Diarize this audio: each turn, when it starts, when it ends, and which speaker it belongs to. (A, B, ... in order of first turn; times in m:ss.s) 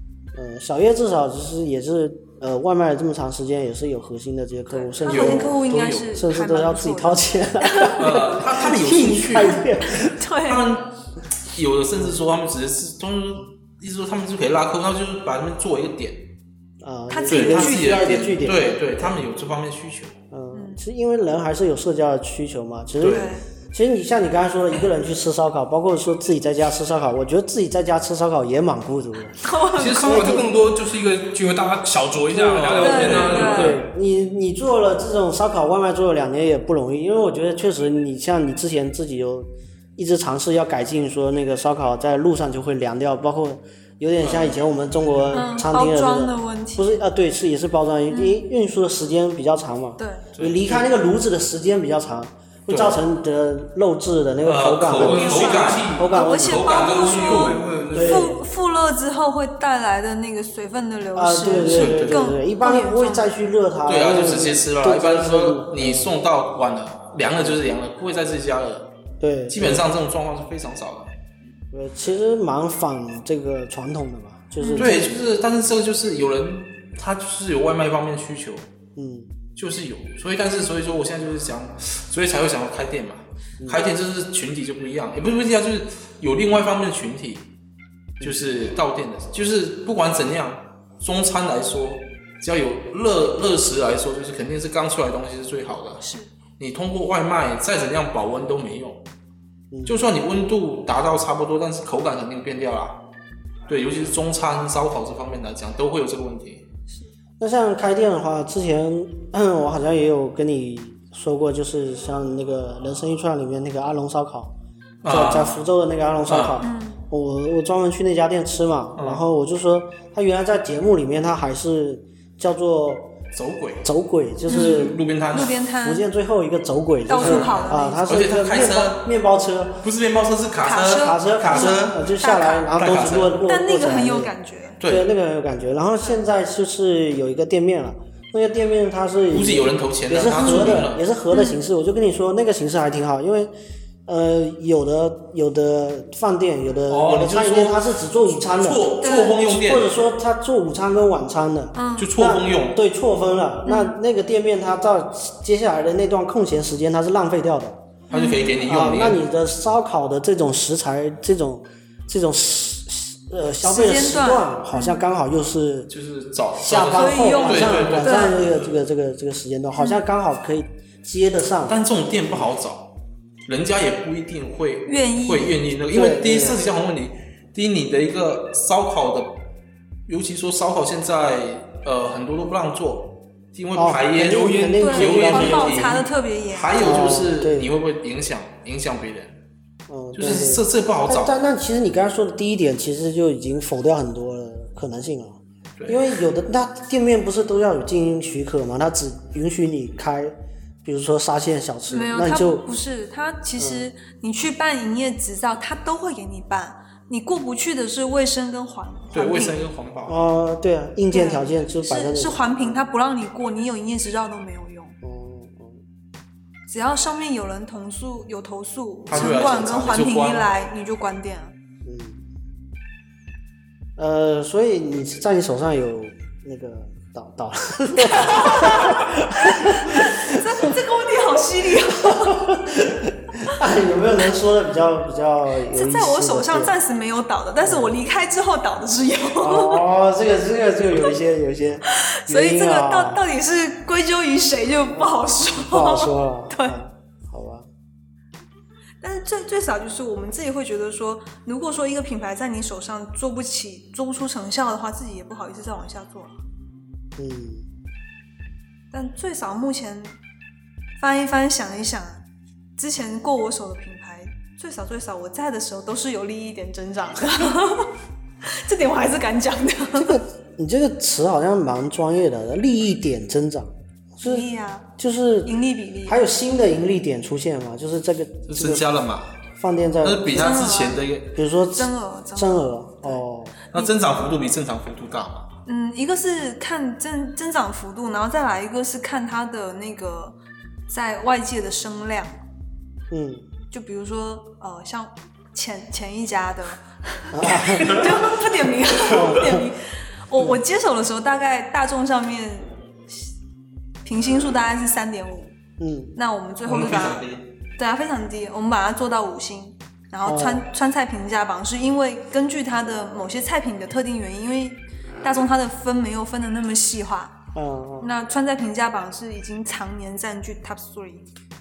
0:00.3-0:05.6 A
0:04.7-0:08.4 B
0:05.1-0:06.2 C
0:06.1-0:10.1 A
0:08.0-0:09.6 C
0:09.4-0:10.6 B
0:10.5-0:10.9 C
0:11.5-0:16.2 C
0:16.8-0:19.2 A
0:17.1-0:18.2 B
0:17.3-0:20.2 C
0:20.3-0:29.4 A
0:20.5-0:20.8 B
0:23.0-0:23.3 C
0:23.1-0:23.4 B
0:29.4-0:30.4 B
0:29.8-0:33.8 D
0:30.0-0:30.5 A
0:32.3-0:33.7 C
0:32.8-0:33.8 B
0:33.1-0:56.9 A
0:44.2-0:44.5 C
0:45.3-0:47.0 B
0:48.1-0:48.4 B
0:50.0-0:50.3 B
0:50.4-0:50.9 C
0:52.7-0:53.0 C
0:54.4-0:57.8 C
0:55.0-0:56.1 D
0:56.1-1:03.3 B
0:57.0-0:58.4 D
0:57.9-0:58.4 A
1:01.2-1:06.2 A
1:01.5-1:02.3 C
1:03.9-1:08.9 C
1:09.2-1:09.9 A
1:09.5-1:11.1 C
1:11.7-1:15.1 A
1:14.6-1:15.0 B
1:14.8-1:18.7 C
1:19.0-1:19.4 A
1:19.6-1:27.5 C
1:28.2-1:28.5 A
1:28.2-1:36.0 C
1:36.0-1:36.3 B
1:36.6-1:39.0 C
1:39.7-1:40.0 A
1:39.9-1:43.0 C
1:43.7-1:46.7 C
1:47.4-1:54.5 A
1:55.0-1:55.6 C
1:55.1-2:03.1 A
1:56.3-1:56.6 C
1:56.6-1:57.0 B
1:59.0-1:59.2 C
2:03.3-2:03.9 C
2:03.8-2:05.0 A
2:04.5-2:05.6 C
2:04.5-2:06.1 B
2:05.8-2:09.8 A
2:07.1-2:08.1 B
2:07.2-2:09.1 C
2:09.8-2:12.0 C
2:10.6-2:12.7 B
2:10.9-2:23.5 A
2:12.8-2:13.4 C
2:13.5-2:14.8 B
2:14.8-2:15.1 C
2:19.3-2:21.0 C
2:21.3-2:21.6 B
2:24.1-2:37.9 A
2:26.9-2:27.9 C
2:28.5-2:30.0 C
2:29.0-2:29.4 B
2:31.7-2:32.1 B
2:32.0-2:32.8 C
2:33.7-2:34.0 B
2:38.1-2:38.6 B
2:38.1-2:39.2 C
2:38.6-2:45.9 A
2:43.6-2:45.0 B
2:45.9-2:48.7 C
2:46.6-2:52.5 A
2:46.9-2:48.4 B
2:51.7-2:52.9 C
2:53.5-2:59.4 C
2:54.9-2:55.6 B
2:55.9-2:56.6 A
3:00.1-3:09.4 C
3:03.8-3:06.0 A
3:04.8-3:07.2 B
3:06.8-3:07.7 A
3:09.9-3:22.7 A
3:10.2-3:11.4 C
3:15.8-3:16.0 C
3:21.9-3:29.6 B
3:23.6-3:23.9 A
3:29.1-3:30.2 C
3:30.1-3:32.8 A
3:31.1-3:35.0 B
3:35.0-3:35.8 A
3:36.7-3:41.5 B
3:39.1-3:40.5 C
3:39.1-3:39.5 A
3:41.8-3:42.2 A
3:44.0-3:50.7 A
3:48.0-3:52.4 B
3:52.0-3:56.8 A
3:55.7-3:59.8 B
3:57.6-3:58.0 A
3:59.4-4:03.2 A
4:02.0-4:06.8 B
4:04.9-4:07.7 A
4:09.0-4:16.4 B
4:17.2-4:17.7 A
4:18.9-4:20.2 B
4:21.0-4:22.2 B
4:22.8-4:27.9 B
4:28.4-4:30.2 B
4:30.0-4:35.5 A
4:34.2-4:34.9 B
4:35.4-4:36.2 B
4:36.1-4:38.9 A
4:38.5-4:39.3 C
4:39.6-4:40.6 A
4:40.0-4:41.3 C
4:40.4-4:41.1 B
4:41.4-4:43.6 A
4:41.8-4:43.2 B
4:43.7-4:45.5 C
4:43.7-4:44.3 B
4:45.7-4:50.4 B
4:50.9-4:52.4 B
4:53.1-4:53.5 A
4:53.7-5:03.3 B
4:57.3-4:58.1 A
4:59.1-4:59.7 A
5:04.0-5:05.6 B
5:05.8-5:06.2 A
5:06.2-5:07.2 B
5:06.7-5:07.4 C
5:07.8-5:17.3 B
5:10.2-5:10.7 A
5:17.5-5:18.1 A
5:18.0-5:21.3 B